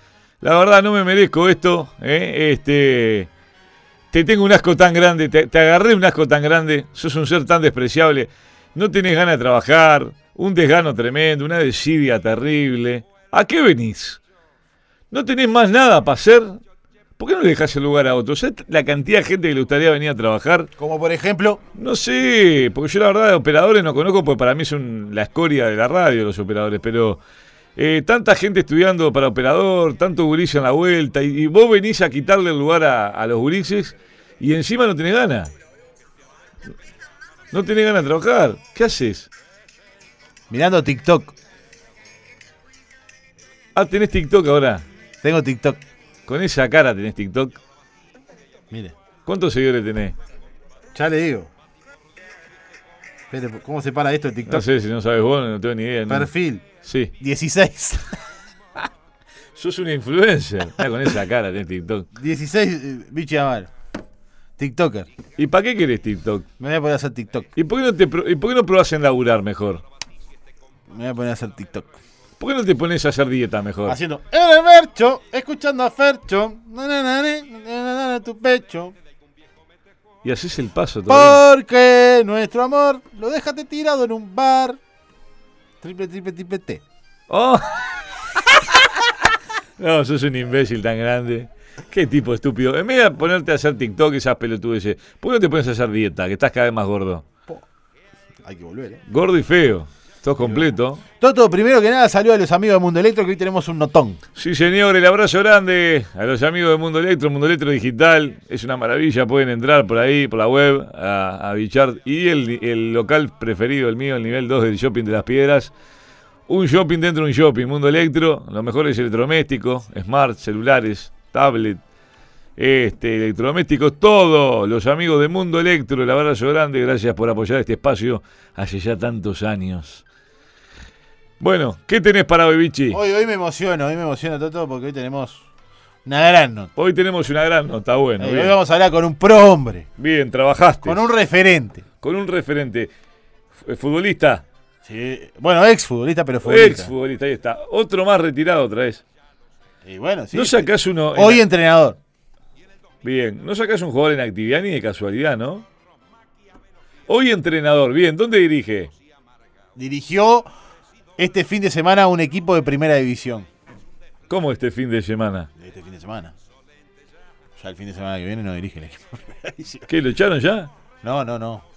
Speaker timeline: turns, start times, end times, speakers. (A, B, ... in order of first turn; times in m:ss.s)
0:00.4-0:03.3 A
0:04.1-0:14.2 A
0:15.1-0:16.6 A
0:17.2-0:20.7 A
0:20.8-0:21.6 B
0:21.8-0:27.2 A
0:27.8-0:35.5 A
0:37.5-0:39.3 A
0:40.5-0:41.3 B
0:43.7-0:44.8 A
0:45.2-0:45.8 B
0:46.3-0:47.6 A
0:48.7-0:49.0 B
0:49.2-0:50.1 A
0:50.9-0:51.5 B
0:53.3-0:54.7 B
0:54.5-0:56.3 A
0:56.1-0:56.7 B
0:56.8-0:57.1 A
0:57.2-0:58.3 B
0:59.6-1:02.1 A
1:02.1-1:03.7 B
1:04.6-1:05.1 B
1:05.4-1:06.4 A
1:06.6-1:07.5 B
1:07.6-1:09.8 A
1:10.9-1:12.0 B
1:12.4-1:14.0 A
1:13.8-1:19.0 B
1:20.2-1:21.4 A
1:21.1-1:24.8 B
1:25.8-1:26.8 B
1:27.3-1:27.9 A
1:28.5-1:28.9 A
1:29.8-1:37.2 A
1:38.4-1:39.0 B
1:39.1-1:41.0 A
1:40.4-1:44.2 B
1:44.4-1:55.7 A
1:56.5-2:01.8 A
2:02.6-2:10.0 A
2:11.4-2:13.0 A
2:12.9-2:15.4 B
2:16.0-2:16.7 B
2:16.8-2:18.5 A
2:18.2-2:19.9 B
2:20.0-2:21.1 A
2:20.8-2:21.8 B
2:22.0-2:22.9 A
2:23.6-2:24.4 A
2:24.8-2:26.9 B
2:26.4-2:29.0 A
2:29.8-2:32.0 B
2:30.3-2:31.4 A
2:33.0-2:35.6 A
2:37.1-2:38.9 A
2:39.8-2:40.5 B
2:41.2-2:43.5 B
2:44.3-2:45.5 A
2:45.6-2:46.3 B
2:47.6-2:49.9 B
2:49.9-2:50.7 A
2:51.0-2:51.6 B